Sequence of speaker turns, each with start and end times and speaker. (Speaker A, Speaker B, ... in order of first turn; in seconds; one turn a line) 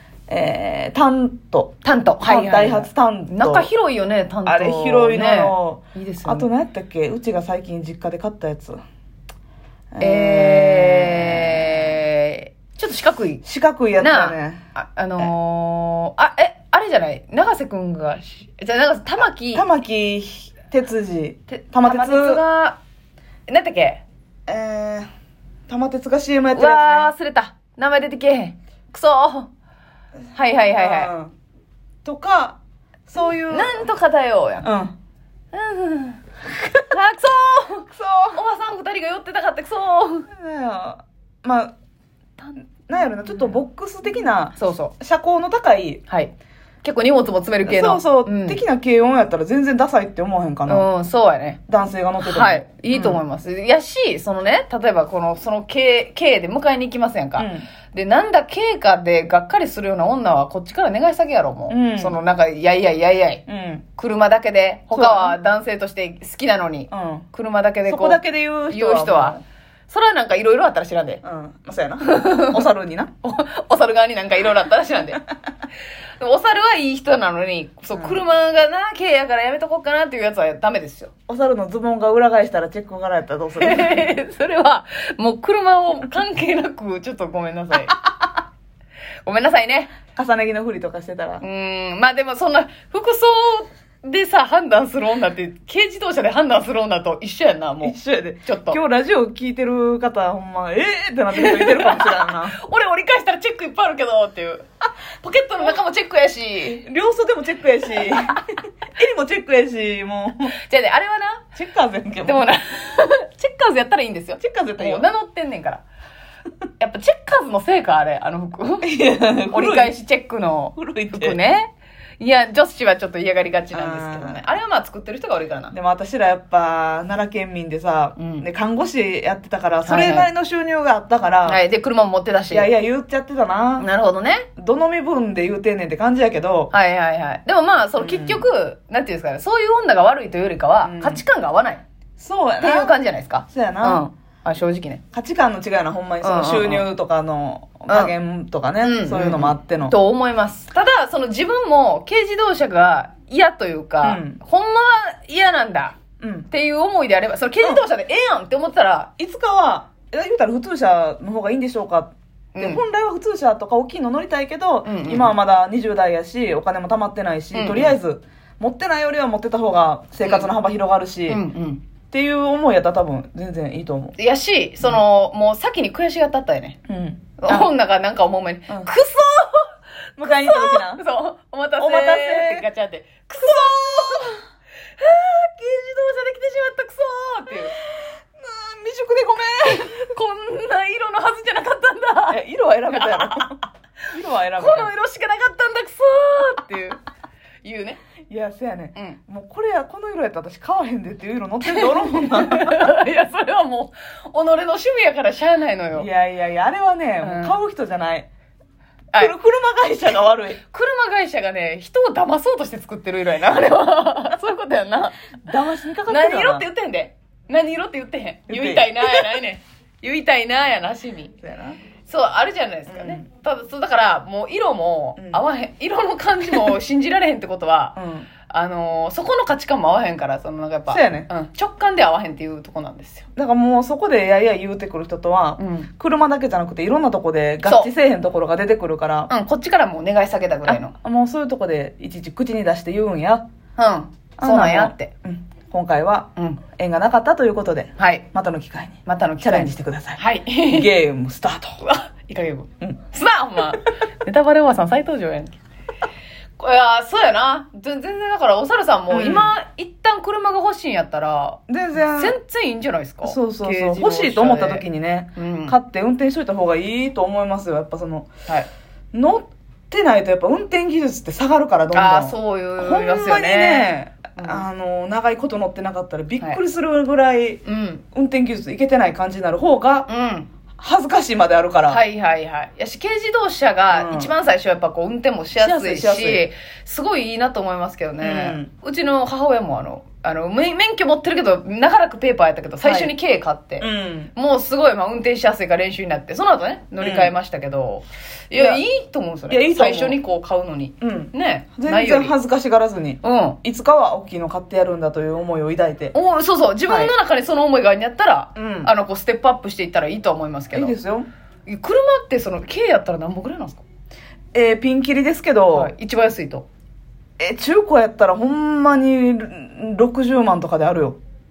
Speaker A: 0.3-3.7
Speaker B: 1.8-6.5
Speaker A: 4.5-8.8
Speaker A: 9.9-11.9
Speaker B: 10.0-13.4
Speaker A: 13.4-14.6
Speaker B: 14.0-19.7
Speaker A: 19.5-22.4
Speaker B: 21.5-22.8
Speaker B: 23.5-24.0
Speaker A: 24.5-25.1
Speaker A: 25.7-27.1
Speaker B: 26.6-29.5
Speaker B: 30.3-31.1
Speaker A: 30.7-31.3
Speaker A: 32.0-33.9
Speaker B: 33.5-34.7
Speaker A: 34.6-34.9
Speaker B: 35.5-40.3
Speaker A: 37.9-38.4
Speaker A: 40.3-41.7
Speaker A: 42.9-46.0
Speaker B: 43.3-43.6
Speaker B: 44.5-44.9
Speaker B: 46.8-48.6
Speaker A: 47.6-50.9
Speaker B: 50.7-51.6
Speaker A: 51.7-53.2
Speaker B: 52.2-63.4
Speaker A: 57.4-57.7
Speaker A: 61.7-62.2
Speaker A: 63.5-63.9
Speaker B: 64.0-71.2
Speaker A: 64.9-65.4
Speaker A: 66.9-67.3
Speaker A: 67.9-69.4
Speaker A: 71.2-73.1
Speaker B: 72.0-72.6
Speaker B: 73.2-75.2
Speaker B: 76.2-81.1
Speaker A: 77.9-78.3
Speaker A: 81.3-84.1
Speaker B: 83.6-88.0
Speaker B: 89.2-89.9
Speaker A: 90.1-91.4
Speaker B: 91.4-98.8
Speaker A: 97.8-102.6
Speaker B: 101.3-104.7
Speaker B: 105.2-106.8
Speaker A: 106.8-108.4
Speaker A: 109.0-110.5
Speaker B: 110.6-111.5
Speaker A: 111.5-112.5
Speaker B: 112.2-115.8
Speaker A: 114.4-115.1
Speaker B: 116.8-119.0
Speaker A: 118.8-120.0
Speaker B: 119.5-125.8
Speaker A: 120.8-121.4
Speaker A: 123.7-124.4
Speaker A: 125.7-131.6
Speaker B: 128.2-128.5
Speaker B: 129.9-130.3
Speaker B: 131.5-132.7
Speaker A: 132.5-133.9
Speaker B: 133.8-134.5
Speaker A: 134.6-136.7
Speaker B: 136.7-141.8
Speaker A: 138.0-138.4
Speaker A: 140.8-141.2
Speaker A: 142.2-143.0
Speaker B: 142.6-145.0
Speaker A: 143.5-144.1
Speaker A: 145.1-150.0
Speaker B: 146.2-146.8
Speaker B: 148.8-156.0
Speaker A: 154.0-154.4
Speaker A: 156.2-156.5
Speaker B: 156.5-159.1
Speaker A: 159.2-171.4
Speaker B: 162.6-162.8
Speaker B: 164.8-165.3
Speaker B: 167.5-168.0
Speaker B: 170.2-170.5
Speaker B: 171.3-171.8
Speaker A: 172.1-174.2
Speaker B: 174.2-176.8
Speaker A: 176.9-177.7
Speaker B: 177.4-179.7
Speaker A: 180.2-181.0
Speaker B: 180.2-184.4
Speaker A: 181.8-182.7
Speaker A: 183.4-184.4
Speaker B: 185.0-187.7
Speaker A: 188.3-190.1
Speaker B: 189.6-193.4
Speaker A: 192.3-193.6
Speaker A: 194.1-194.9
Speaker B: 194.6-197.0
Speaker B: 197.6-198.0
Speaker A: 198.3-202.8
Speaker B: 201.7-206.1
Speaker A: 205.9-208.3
Speaker B: 207.2-207.5
Speaker A: 209.2-210.6
Speaker B: 210.7-215.2
Speaker A: 215.4-216.7
Speaker B: 216.1-221.3
Speaker A: 218.5-219.4
Speaker A: 221.4-221.8
Speaker B: 222.1-233.3
Speaker A: 222.9-223.3
Speaker A: 225.2-225.4
Speaker A: 228.0-228.3
Speaker A: 230.9-231.3
Speaker A: 233.4-239.3
Speaker B: 235.6-235.9
Speaker B: 237.7-237.9
Speaker B: 239.3-240.9
Speaker A: 240.7-243.4
Speaker B: 243.8-245.1
Speaker A: 244.4-251.8
Speaker B: 248.0-248.3
Speaker B: 249.1-250.9
Speaker B: 251.8-255.6
Speaker B: 256.6-264.9
Speaker A: 259.1-259.5
Speaker A: 261.7-262.4
Speaker A: 263.2-268.3
Speaker B: 265.4-265.8
Speaker A: 269.1-280.1
Speaker B: 271.9-274.6
Speaker B: 277.7-278.0
Speaker B: 280.1-280.5
Speaker A: 280.8-282.0
Speaker B: 281.9-302.3
Speaker A: 283.9-284.3
Speaker A: 285.6-286.4
Speaker A: 288.2-288.7
Speaker A: 292.8-293.1
Speaker A: 293.8-294.3
Speaker A: 297.0-297.3
Speaker A: 298.5-298.8
Speaker A: 299.5-300.2
Speaker A: 301.0-306.1
Speaker B: 303.2-303.6
Speaker B: 306.1-310.9
Speaker A: 306.9-307.1
Speaker A: 308.6-308.9
Speaker A: 310.7-311.3
Speaker B: 311.7-313.8
Speaker A: 314.5-315.9
Speaker B: 315.7-316.7
Speaker A: 317.4-321.2